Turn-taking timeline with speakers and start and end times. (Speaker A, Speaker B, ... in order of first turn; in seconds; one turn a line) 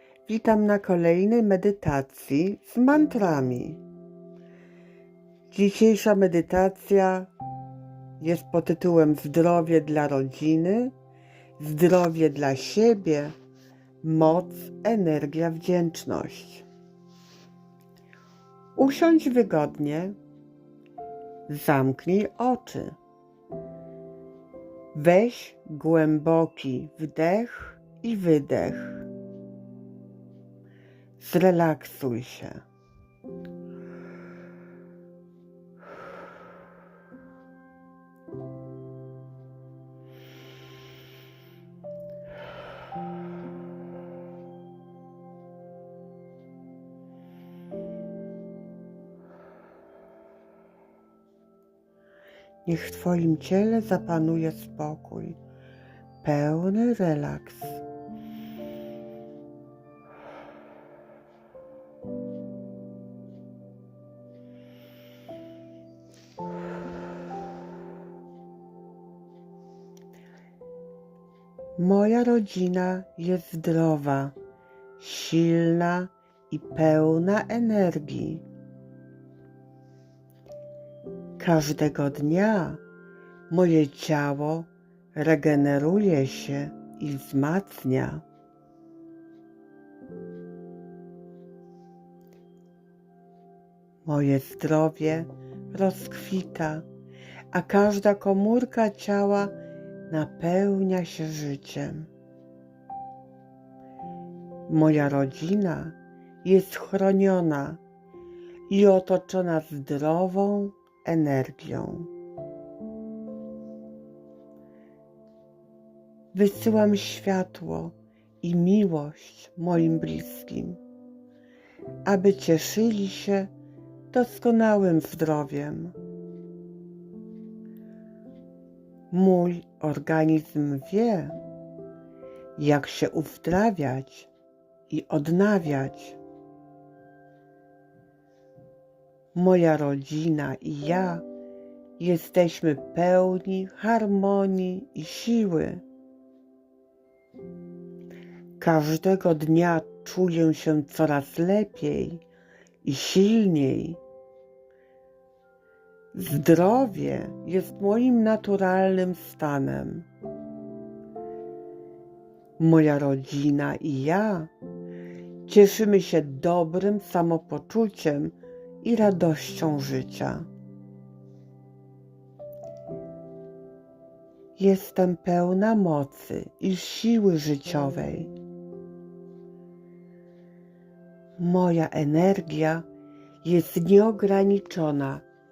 Speaker A: 0.3-3.8
Speaker A: 5.5-7.3
Speaker A: 8.2-10.9
Speaker A: 11.6-13.3
Speaker A: 14.0-16.7
Speaker A: 18.8-20.2
Speaker A: 21.5-23.0
Speaker A: 24.9-29.1
Speaker A: 31.2-32.6
Speaker A: 52.6-55.4
Speaker A: 56.2-57.8
Speaker A: 71.8-74.3
Speaker A: 75.0-78.5
Speaker A: 81.4-82.8
Speaker A: 83.5-88.2
Speaker A: 94.0-96.9
Speaker A: 97.5-99.6
Speaker A: 100.1-102.1
Speaker A: 104.7-107.8
Speaker A: 108.7-112.1
Speaker A: 116.3-120.8
Speaker A: 122.0-123.5
Speaker A: 124.1-126.0
Speaker A: 129.1-131.4
Speaker A: 132.6-134.3
Speaker A: 134.9-136.2
Speaker A: 139.3-141.2
Speaker A: 142.0-145.8
Speaker A: 148.6-152.2
Speaker A: 152.8-154.0
Speaker A: 156.1-160.1
Speaker A: 162.6-164.5
Speaker A: 165.5-170.5
Speaker A: 174.6-178.3
Speaker A: 181.4-182.9
Speaker A: 183.4-185.2